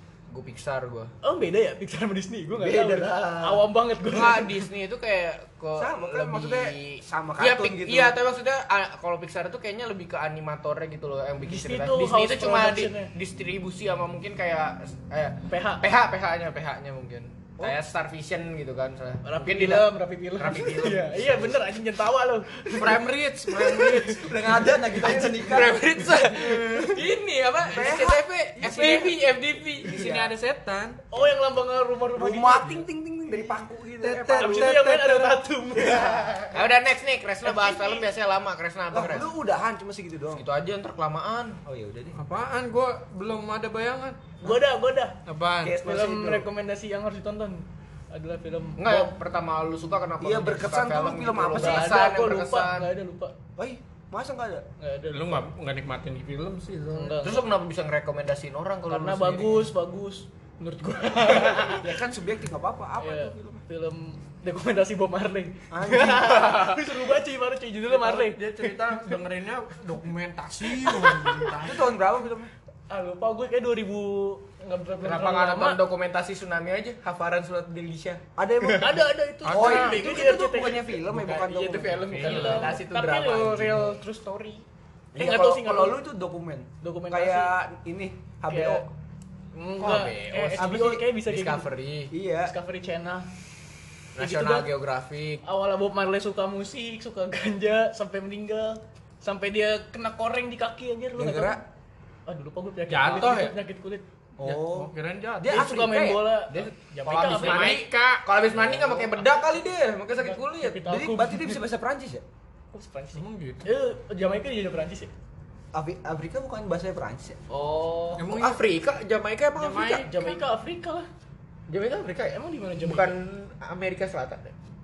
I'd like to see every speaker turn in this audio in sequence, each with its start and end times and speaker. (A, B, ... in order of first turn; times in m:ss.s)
0:00.3-0:01.1 A
0:01.2-0:04.6 B
0:02.6-0:03.6 C
0:04.1-0:21.6 A
0:05.8-0:08.2 C
0:11.4-0:13.1 B
0:15.5-0:15.8 B
0:19.2-0:24.3 B
0:22.7-0:24.4 D
0:24.1-0:27.0 C
0:25.0-0:25.2 B
0:25.4-0:29.9 A
0:27.6-0:28.2 C
0:27.7-0:29.1 D
0:29.8-0:30.3 C
0:29.8-0:31.0 D
0:31.1-0:32.8 B
0:32.2-0:35.1 C
0:34.0-0:35.2 D
0:34.3-0:36.6 B
0:35.7-0:36.4 C
0:36.5-0:39.3 A
0:37.4-0:38.1 B
0:38.9-0:40.4 C
0:40.3-0:41.6 A
0:41.6-0:42.2 C
0:42.1-0:44.4 D
0:44.4-0:45.2 B
0:45.2-0:45.8 D
0:45.6-0:46.5 C
0:45.7-0:49.1 B
0:48.8-0:52.9 A
0:50.2-0:52.0 C
0:51.5-0:53.4 B
0:53.6-0:54.6 C
0:54.8-0:55.4 B
0:55.1-0:57.2 D
0:56.9-0:57.4 B
0:57.2-0:59.7 A
0:58.9-1:02.0 B
1:01.7-1:03.6 C
1:03.0-1:08.4 B
1:05.7-1:06.7 C
1:07.9-1:11.9 D
1:10.8-1:11.6 B
1:11.6-1:12.5 C
1:12.9-1:15.8 B
1:15.0-1:18.2 A
1:18.4-1:22.6 C
1:18.6-1:24.6 B
1:19.4-1:20.1 D
1:22.1-1:22.7 D
1:22.2-1:24.0 A
1:25.1-1:28.9 C
1:25.2-1:26.0 B
1:26.8-1:27.5 B
1:28.5-1:28.9 B
1:29.5-1:31.7 B
1:29.8-1:30.7 A
1:30.6-1:31.1 C
1:31.2-1:32.1 A
1:32.1-1:32.5 C
1:32.4-1:33.3 B
1:34.1-1:35.4 A
1:34.2-1:34.7 B
1:35.4-1:41.6 B
1:41.2-1:41.6 C
1:42.3-1:44.0 B
1:42.9-1:43.6 D
1:44.4-1:46.4 C
1:44.4-1:45.6 D
1:45.4-1:47.8 B
1:46.5-1:50.8 A
1:47.1-1:49.0 D
1:50.2-1:51.6 B
1:50.8-1:52.2 C
1:52.7-1:55.1 B
1:53.1-1:53.6 D
1:55.7-1:57.4 C
1:57.5-1:58.2 B
1:58.1-2:00.1 A
1:58.2-1:58.6 D
1:59.6-2:00.4 D
2:00.0-2:01.1 B
2:01.7-2:04.5 A
2:02.2-2:03.1 B